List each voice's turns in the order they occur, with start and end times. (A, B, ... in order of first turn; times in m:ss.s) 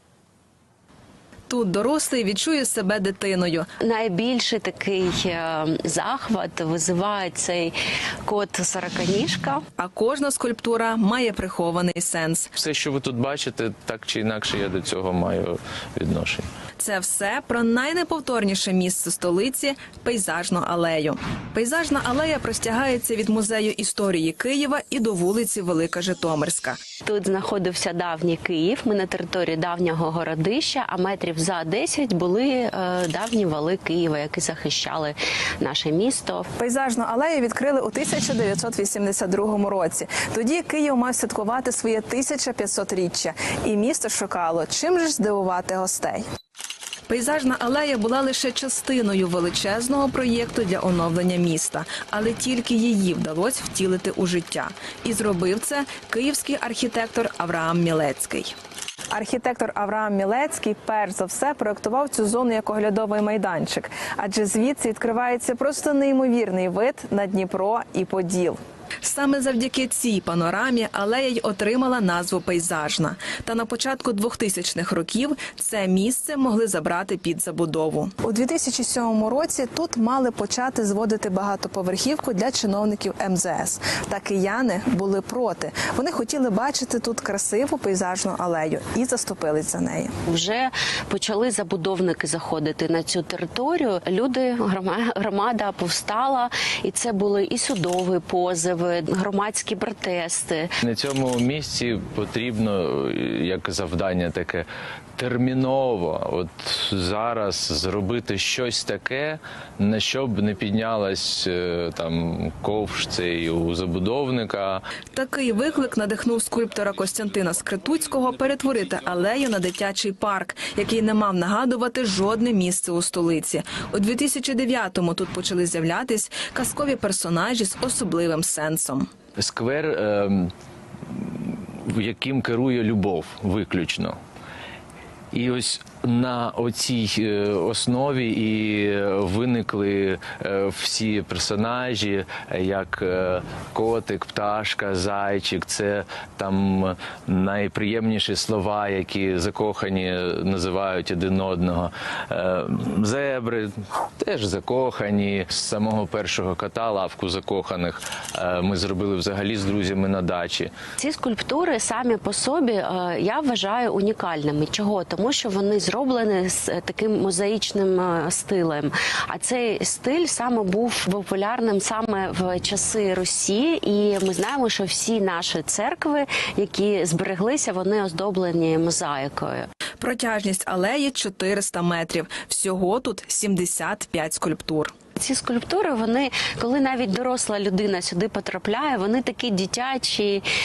0:01.5-0:03.7 A
0:03.8-0:07.7 B
0:08.2-0:09.6 B
0:09.8-0:12.5 A
0:12.5-0:16.5 C
0:16.8-0:26.8 A
0:27.0-0:36.5 B
0:36.6-0:46.2 A
0:47.1-0:58.5 A
0:59.1-1:30.1 A
1:30.2-1:40.7 B
1:40.8-1:54.8 C
1:55.1-2:09.1 A
2:09.4-2:10.5 C
2:11.1-2:14.2 C
2:15.3-2:40.7 C
2:41.0-2:59.7 B
3:00.0-3:04.9 A
3:05.2-3:10.4 B